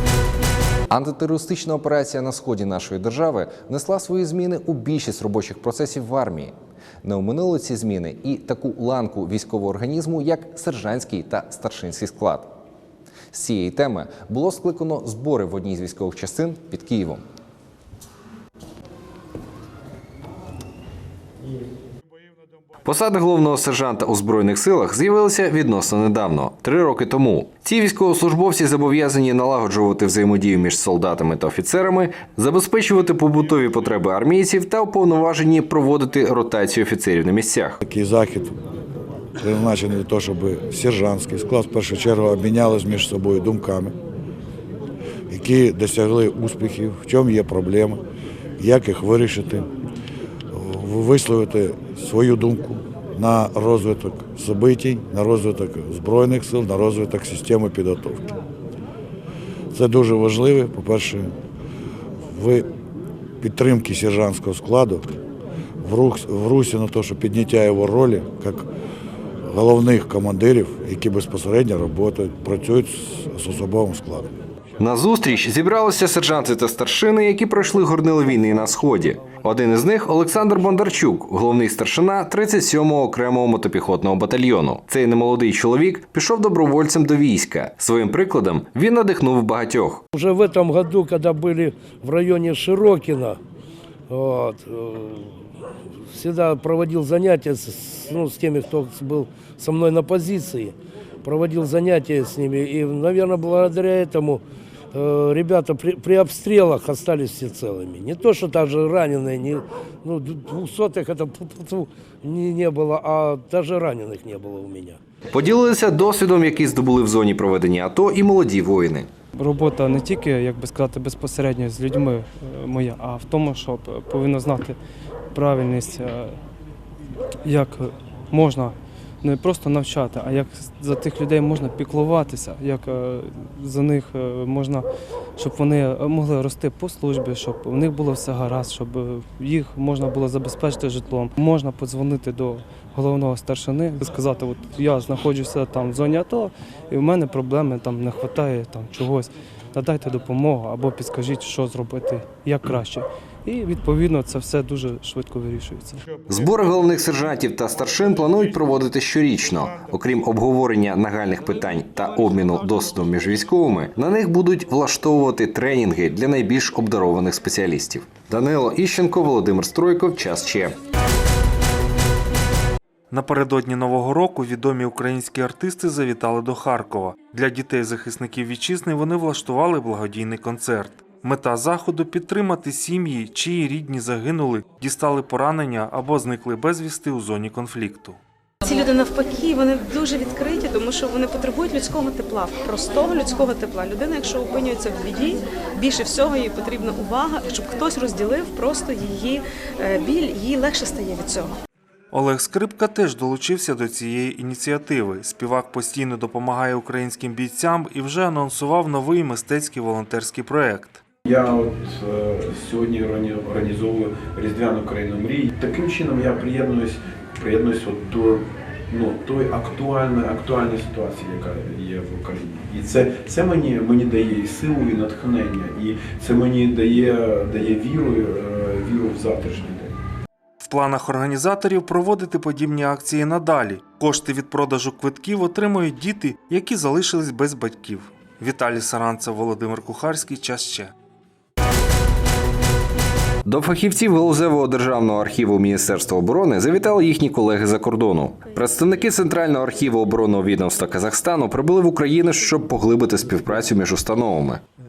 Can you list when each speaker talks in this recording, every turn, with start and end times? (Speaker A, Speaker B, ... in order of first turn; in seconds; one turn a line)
Speaker A: 0.9-12.5
Speaker A: 13.3-17.2
Speaker A: 22.8-37.8
Speaker B: 37.8-38.5
Speaker B: 39.4-43.9
Speaker B: 45.3-48.0
Speaker B: 48.6-49.7
Speaker B: 50.5-58.3
Speaker B: 59.7-61.3
Speaker B: 62.3-62.6
Speaker B: 63.4-65.2
Speaker B: 65.8-68.7
Speaker B: 69.4-74.3
Speaker A: 74.8-90.0
Speaker C: 90.1-93.4
Speaker C: 94.1-95.4
Speaker C: 96.1-115.0
Speaker A: 115.3-119.1
Speaker D: 119.3-124.8
Speaker D: 125.3-126.4
Speaker D: 127.4-156.0
Speaker A: 156.2-170.8
Speaker E: 173.1-188.2
Speaker F: 188.6-201.5
Speaker E: 202.1-211.0
Speaker G: 211.2-229.9
Speaker E: 230.6-240.9
Speaker A: 243.4-254.6